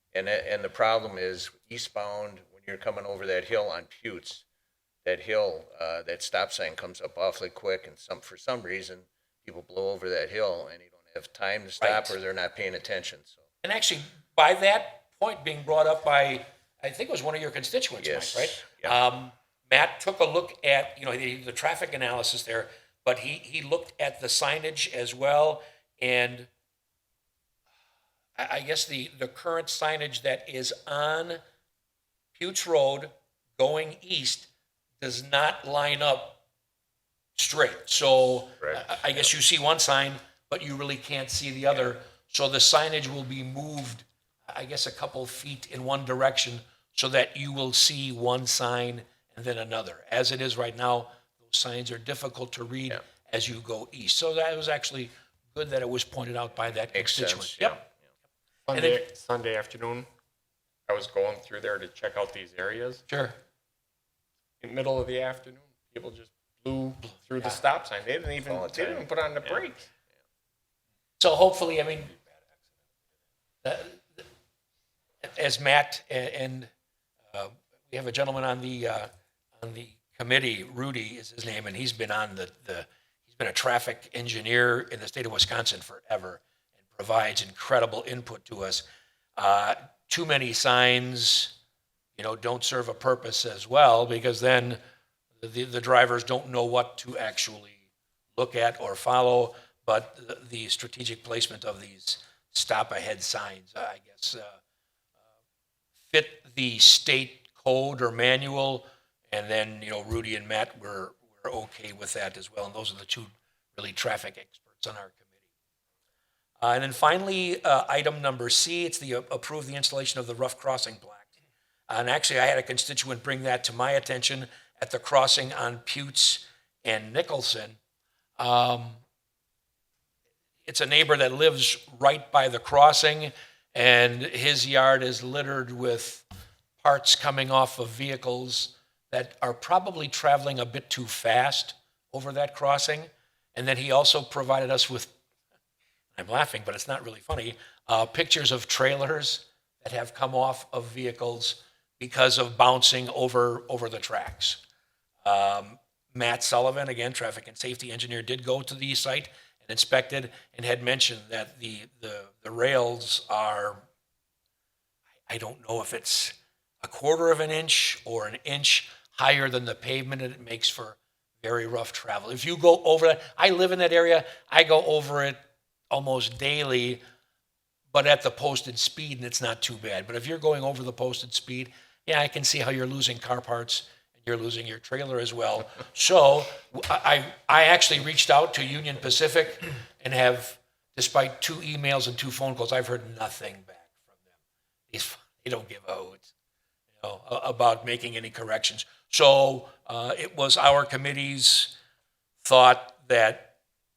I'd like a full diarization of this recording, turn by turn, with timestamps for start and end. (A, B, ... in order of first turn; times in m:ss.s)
0:00.1-0:04.4 A
0:05.0-0:13.4 A
0:11.8-0:12.2 B
0:13.6-0:26.5 B
0:18.0-0:19.0 A
0:28.4-0:31.4 B
0:32.4-0:34.5 B
0:35.0-0:36.4 B
0:37.4-0:57.8 B
0:38.6-0:38.9 A
0:56.9-0:57.9 A
0:58.7-1:00.1 C
0:58.8-0:59.0 B
1:00.9-1:03.0 C
1:03.1-1:03.4 B
1:04.6-1:09.9 C
1:08.4-1:09.6 A
1:11.2-1:12.1 B
1:13.6-1:14.2 B
1:15.2-1:16.7 B
1:17.3-1:28.8 B
1:29.4-1:31.5 B
1:32.2-1:34.8 B
1:35.4-1:37.8 B
1:38.4-1:44.6 B
1:46.1-1:55.3 B
1:56.6-2:01.3 B
2:01.9-2:07.8 B
2:08.4-2:09.0 B
2:10.7-2:16.3 B
2:16.8-2:25.1 B
2:26.2-2:34.6 B
2:35.2-2:43.8 B
2:45.3-2:55.4 B
2:55.9-2:57.0 B
2:57.9-3:14.0 B
3:14.9-3:16.3 B
3:17.0-3:21.7 B
3:22.4-3:23.5 B